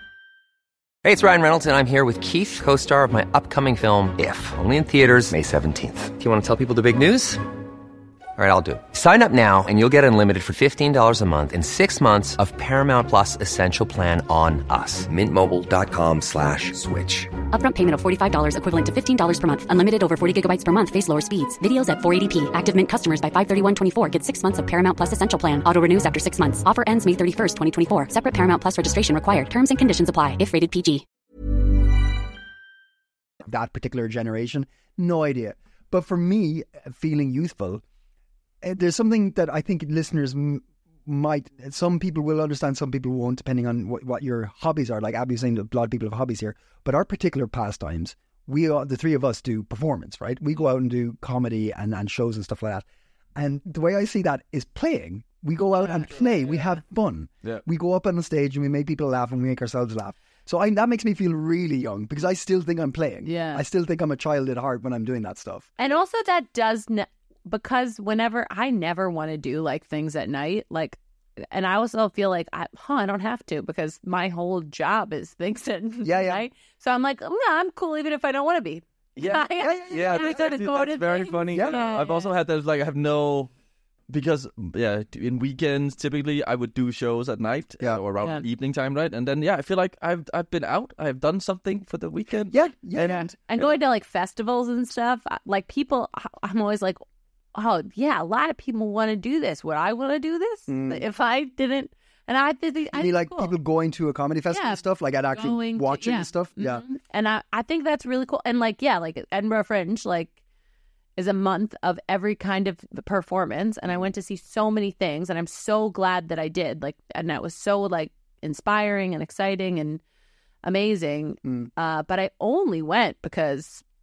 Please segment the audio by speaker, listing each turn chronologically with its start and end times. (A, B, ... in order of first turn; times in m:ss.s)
0:01.0-0:07.4 A
0:08.4-0:17.3 A
0:17.5-0:31.0 B
0:33.4-0:37.8 C
0:38.6-0:52.8 C
0:53.4-1:05.7 C
1:03.2-1:03.6 D
1:05.8-1:11.0 D
1:11.5-1:22.3 D
1:16.0-1:16.4 C
1:19.2-1:23.5 E
1:19.6-1:20.3 C
1:21.5-1:21.8 C
1:24.1-1:33.3 E
1:32.5-1:33.2 C
1:33.0-1:37.0 D
1:37.5-1:43.5 D
1:40.7-1:41.0 C
1:42.9-1:46.8 C
1:44.5-1:44.8 D
1:45.3-1:50.4 D
1:51.2-2:00.0 D
2:00.6-2:03.8 D